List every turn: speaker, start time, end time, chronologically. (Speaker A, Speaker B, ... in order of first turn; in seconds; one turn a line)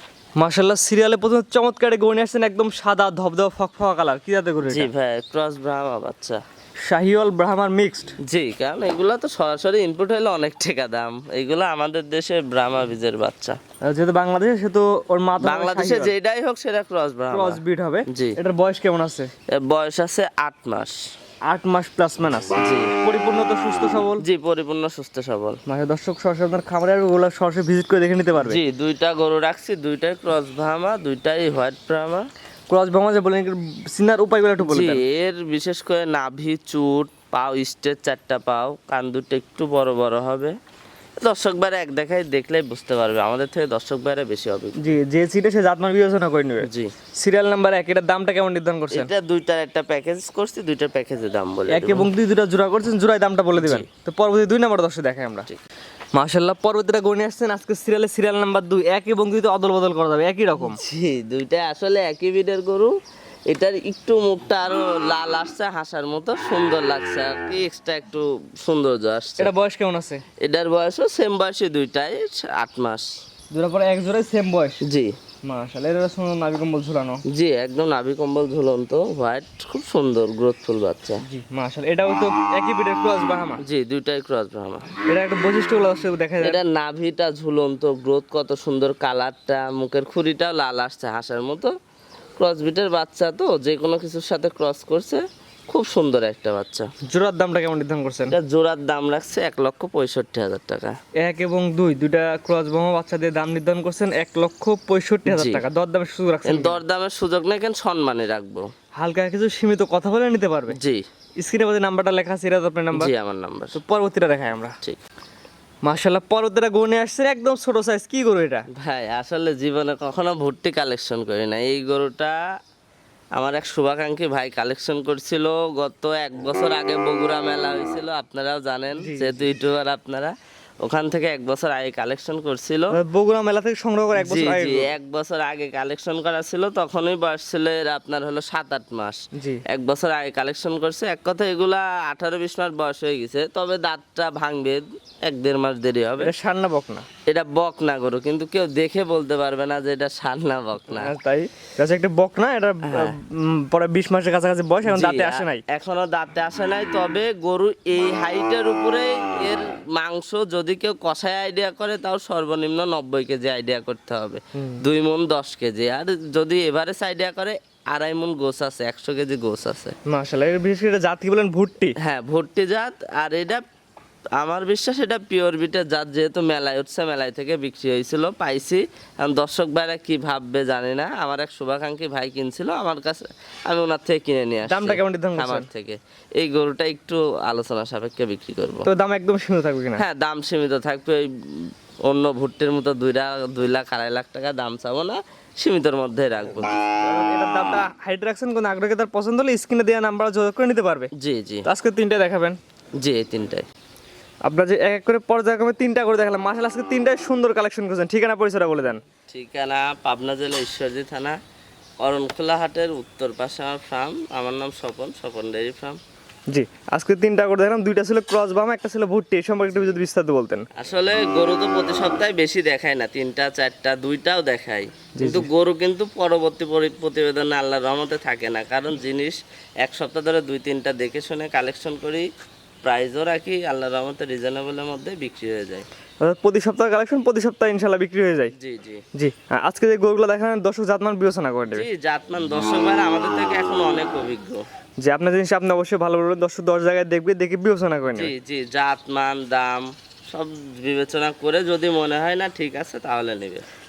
Speaker A: 0.4-4.9
Speaker B: 4.6-6.4
Speaker A: 6.9-8.1
Speaker B: 8.2-13.6
Speaker A: 13.8-16.1
Speaker B: 15.4-18.4
Speaker A: 17.3-19.3
Speaker B: 19.5-21.0
Speaker A: 21.5-24.2
Speaker B: 22.6-22.9
Speaker B: 24.2-25.6
Speaker A: 25.7-28.6
Speaker B: 28.4-32.3
Speaker A: 32.7-35.0
Speaker B: 34.6-40.5
Speaker B: 41.2-45.0
Speaker A: 44.8-49.1
Speaker B: 46.6-46.9
Speaker B: 48.9-52.1
Speaker A: 51.7-55.5
Speaker B: 53.6-53.9
Speaker A: 56.1-60.8
Speaker B: 60.5-62.9
Speaker B: 63.5-69.5
Speaker A: 69.4-70.2
Speaker B: 70.4-73.1
Speaker A: 73.5-74.8
Speaker B: 74.8-75.1
Speaker A: 75.4-77.2
Speaker B: 77.3-81.2
Speaker A: 81.2-83.6
Speaker B: 83.6-84.9
Speaker A: 85.1-86.6
Speaker B: 86.4-91.7
Speaker B: 92.4-96.9
Speaker A: 97.1-98.3
Speaker B: 98.3-100.9
Speaker A: 101.2-106.8
Speaker B: 105.3-105.6
Speaker B: 106.4-108.7
Speaker A: 109.0-110.8
Speaker B: 110.7-111.0
Speaker A: 111.4-113.1
Speaker B: 112.9-113.8
Speaker A: 113.7-114.8
Speaker A: 115.8-118.6
Speaker B: 118.7-122.4
Speaker B: 123.3-132.9
Speaker A: 128.9-129.4
Speaker A: 132.9-134.9
Speaker B: 134.2-146.3
Speaker A: 139.3-139.6
Speaker A: 146.2-147.1
Speaker B: 147.3-151.1
Speaker A: 150.9-155.6
Speaker B: 152.8-153.1
Speaker B: 154.8-169.9
Speaker A: 164.6-164.8
Speaker A: 170.1-171.9
Speaker B: 172.0-173.6
Speaker B: 174.4-188.9
Speaker A: 184.7-185.7
Speaker A: 188.8-190.0
Speaker B: 190.0-196.8
Speaker A: 197.0-201.1
Speaker B: 201.2-201.7
Speaker A: 201.7-202.6
Speaker B: 203.0-203.7
Speaker A: 204.4-209.0
Speaker B: 209.3-211.4
Speaker B: 212.0-216.0
Speaker A: 216.5-220.7
Speaker B: 220.7-232.3
Speaker A: 225.2-225.5
Speaker B: 232.8-235.8
Speaker A: 236.2-238.5
Speaker B: 238.6-239.0
Speaker A: 239.1-241.9
Speaker B: 241.7-244.6
Speaker A: 245.0-248.3
Speaker B: 248.1-253.6